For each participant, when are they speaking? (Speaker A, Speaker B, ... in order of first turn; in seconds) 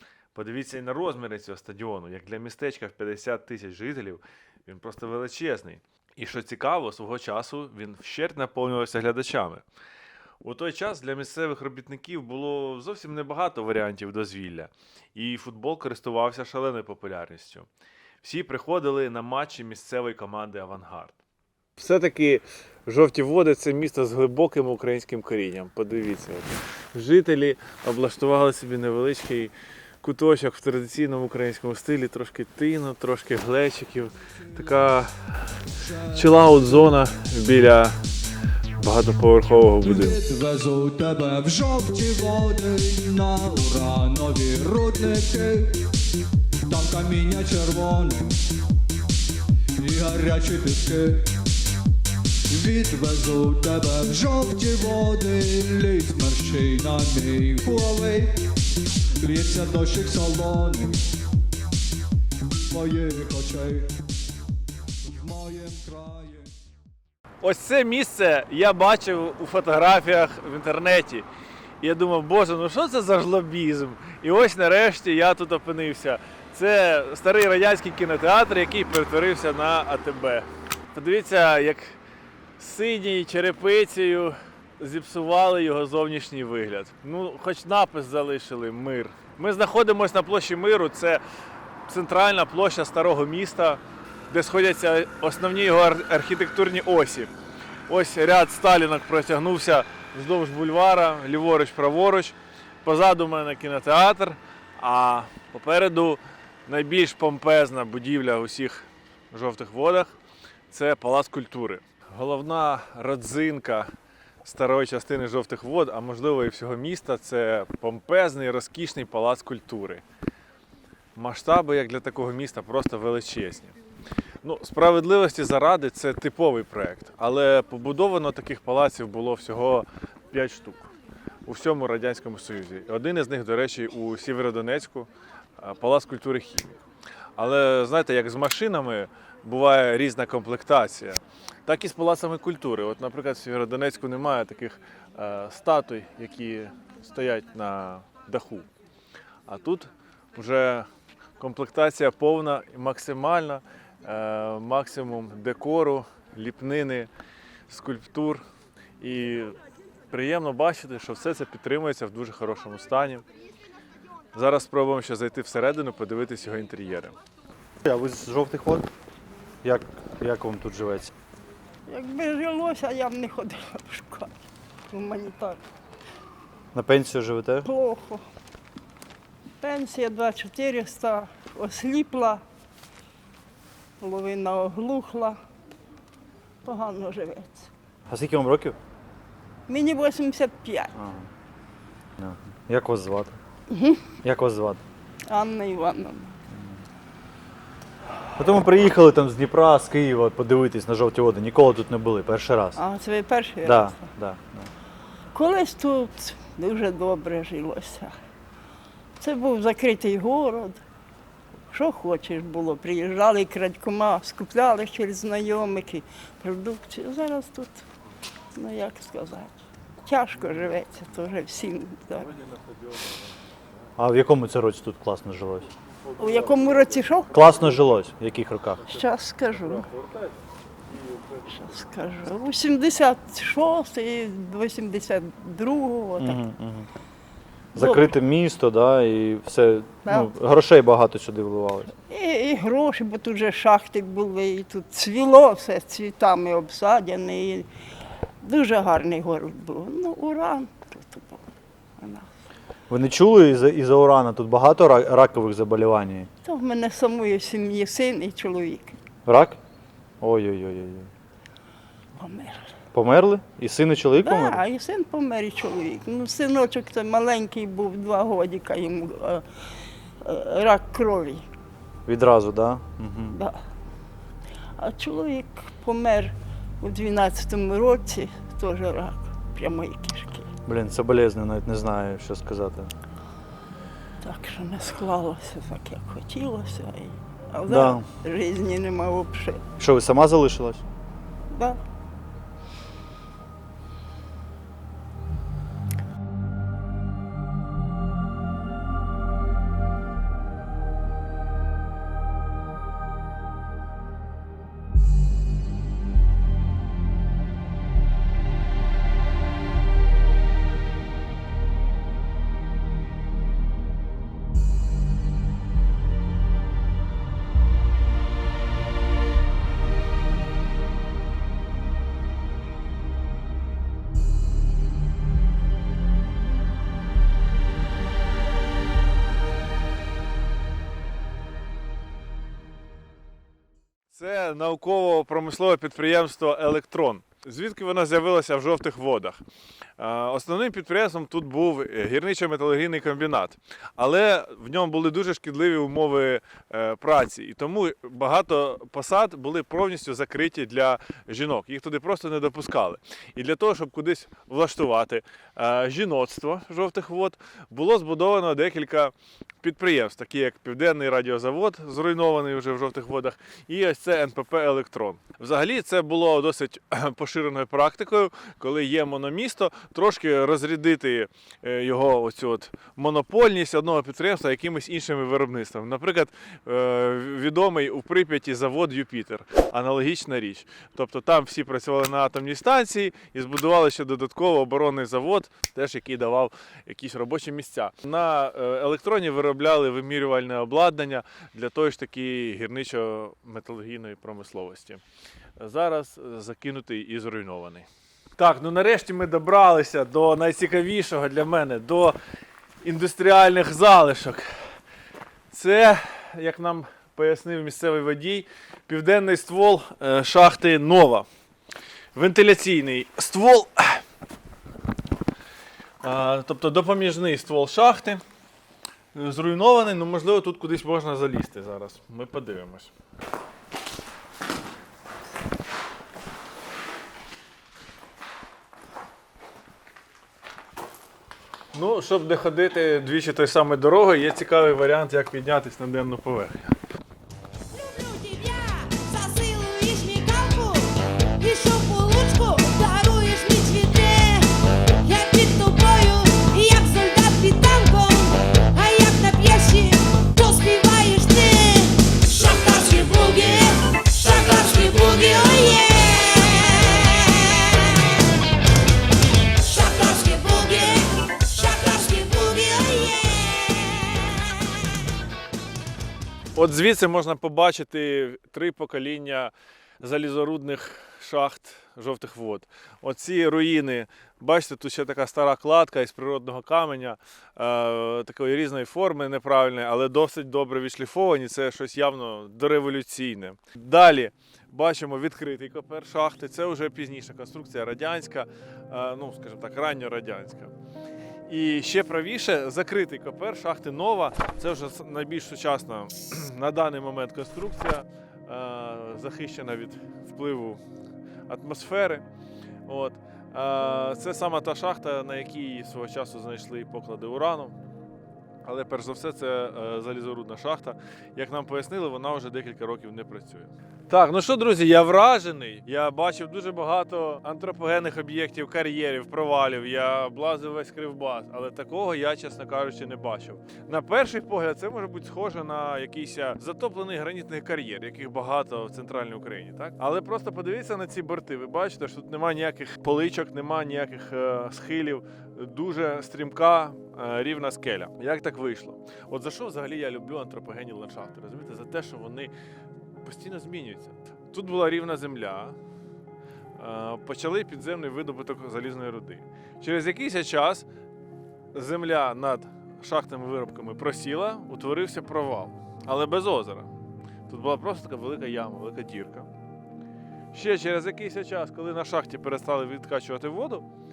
Speaker A: 0.3-9.7, 10.4-17.7, 18.2-21.2, 21.8-35.5, 36.1-38.0, 38.8-40.2, 67.4-71.3, 71.8-82.0, 82.6-91.2, 91.9-97.3, 97.9-110.1, 110.7-113.9, 114.4-120.0, 121.2-123.8, 124.4-130.9, 131.5-136.8, 137.4-148.7, 149.5-150.9, 151.4-157.1, 157.7-158.4, 159.0-159.6, 160.1-163.2, 164.3-167.2, 334.1-339.4, 340.0-395.0, 395.6-402.2, 402.8-404.5, 405.5-411.3, 412.1-414.0, 416.0-418.2, 419.1-422.9, 431.7-436.8, 466.6-490.7, 491.5-500.8, 501.5-502.3, 502.9-507.8, 508.6-542.5, 543.2-545.8, 546.8-550.9, 551.7-556.9, 557.5-559.5, 560.5-563.9
Speaker B: 39.8-45.8, 46.7-48.4, 49.8-51.3, 52.5-58.5, 59.2-61.0, 62.7-64.0, 65.0-66.5
Speaker C: 167.8-168.9, 169.6-171.1, 176.7-177.7, 188.1-188.8, 190.9-191.3, 192.2-193.4, 194.2-194.8, 198.4-202.8, 203.6-204.7, 224.0-225.7, 227.3-228.9, 236.2-236.9, 237.7-241.9, 252.9-256.3, 259.3-259.6, 260.2-261.1, 262.9-264.6, 272.1-273.4, 280.6-282.9, 287.7-288.1, 289.8-290.8
Speaker D: 171.9-174.3, 174.9-175.6, 177.6-178.2, 179.6-182.4, 184.0-185.4, 186.6-187.7, 189.7-190.9, 193.7-194.0, 195.3-196.4, 202.8-204.1, 205.3-208.1, 209.2-210.8, 211.7-217.8, 218.6-222.3, 226.2-227.4, 228.8-229.9, 231.4-236.4, 237.8-238.2, 242.1-247.7, 248.4-251.4, 252.0-252.3, 256.4-259.0, 262.2-262.8, 264.2-269.4, 270.2-271.4, 273.3-273.6, 274.8-280.5, 284.2-289.6, 291.5-291.8, 437.8-444.5, 445.1-456.5, 459.7-463.4